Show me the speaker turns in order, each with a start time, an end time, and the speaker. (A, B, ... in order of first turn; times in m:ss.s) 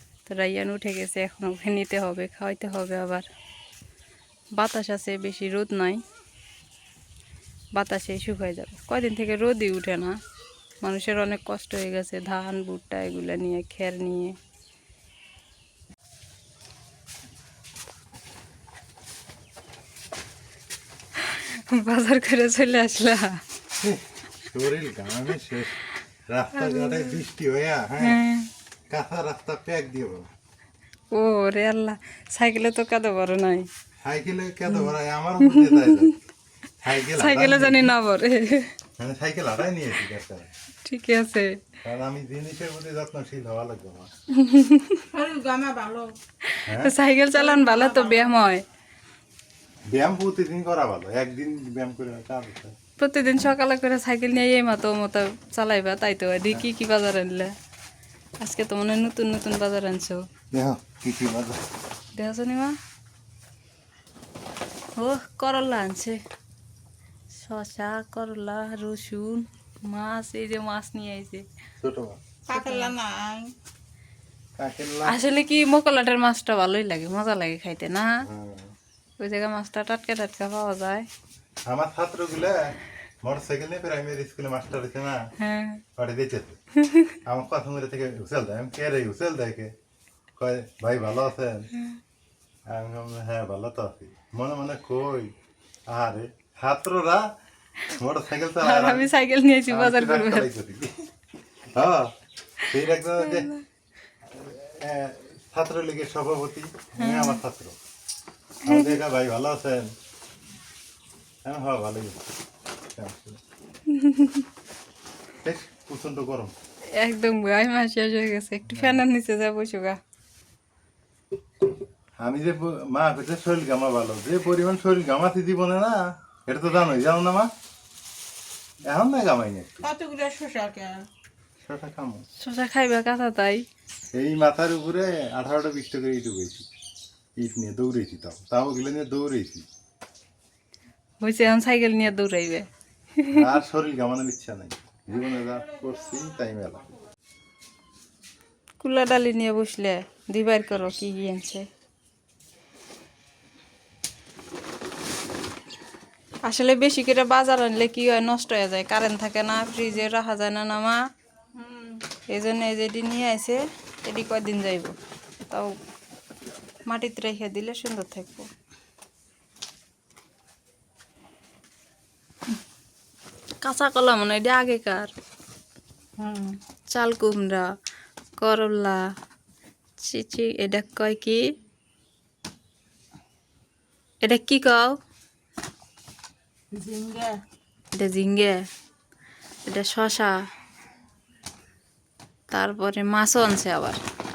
0:00.2-0:03.2 A
0:04.6-0:06.0 A
0:07.8-0:10.2 A
0:10.8-0:14.4 A
0:21.2-0:23.4 A
0:23.8-0:28.2 B
0:26.6-0:27.2 A
0:28.0-0:28.5 A
0:28.9-0:30.3 B
0:31.1-0:33.7 A
0:34.0-0:36.2 B
0:35.4-0:36.1 A
0:36.8-0:37.9 B
0:37.0-0:38.7 A
0:39.0-0:40.5 B
0:40.8-0:41.6 A
0:41.8-0:44.1 B
0:44.3-0:45.0 A
0:45.1-0:46.1 C
0:46.4-0:48.6 A
0:46.6-0:46.9 B
0:47.3-0:48.4 C
0:49.9-0:52.8 B
0:53.0-0:57.5 A
0:58.4-1:00.2 A
1:00.5-1:01.6 B
1:02.2-1:02.8 A
1:05.0-1:06.2 A
1:07.3-1:11.4 A
1:11.8-1:12.2 B
1:12.5-1:13.5 C
1:12.5-1:12.9 A
1:14.6-1:15.2 B
1:15.0-1:18.2 A
1:18.2-1:18.7 B
1:19.2-1:21.1 A
1:21.7-1:25.2 B
1:25.4-1:25.8 A
1:25.9-1:26.6 B
1:26.8-1:27.1 A
1:27.2-1:29.7 B
1:30.4-1:31.7 B
1:32.7-1:35.3 B
1:35.9-1:37.3 B
1:37.9-1:39.1 B
1:38.6-1:40.5 A
1:39.7-1:41.0 B
1:41.7-1:42.1 B
1:42.6-1:43.6 A
1:42.6-1:43.5 B
1:44.2-1:47.8 B
1:47.0-1:47.4 A
1:48.6-1:48.9 A
1:48.6-1:49.9 B
1:51.4-1:52.2 B
1:52.9-1:53.4 B
1:53.9-1:54.5 A
1:55.4-1:56.5 B
1:56.9-2:00.0 A
1:58.7-1:59.0 B
2:02.2-2:07.5 B
2:08.8-2:09.9 B
2:09.8-2:11.0 C
2:11.6-2:12.2 B
2:12.4-2:13.6 A
2:14.1-2:16.7 B
2:17.4-2:19.7 B
2:21.2-2:23.5 A
2:23.3-2:26.8 B
2:28.8-2:31.6 A
2:36.4-2:41.0 A
2:41.5-2:42.0 C
2:42.3-2:44.9 A
2:46.9-2:48.5 A
2:53.6-2:55.1 A
2:56.2-2:56.6 C
2:56.9-2:57.7 A
2:58.4-2:59.0 A
3:00.0-3:01.4 A
3:04.2-3:04.9 A
3:06.7-3:07.4 C
3:08.0-3:08.6 A
3:09.6-3:10.4 A
3:12.5-3:14.0 A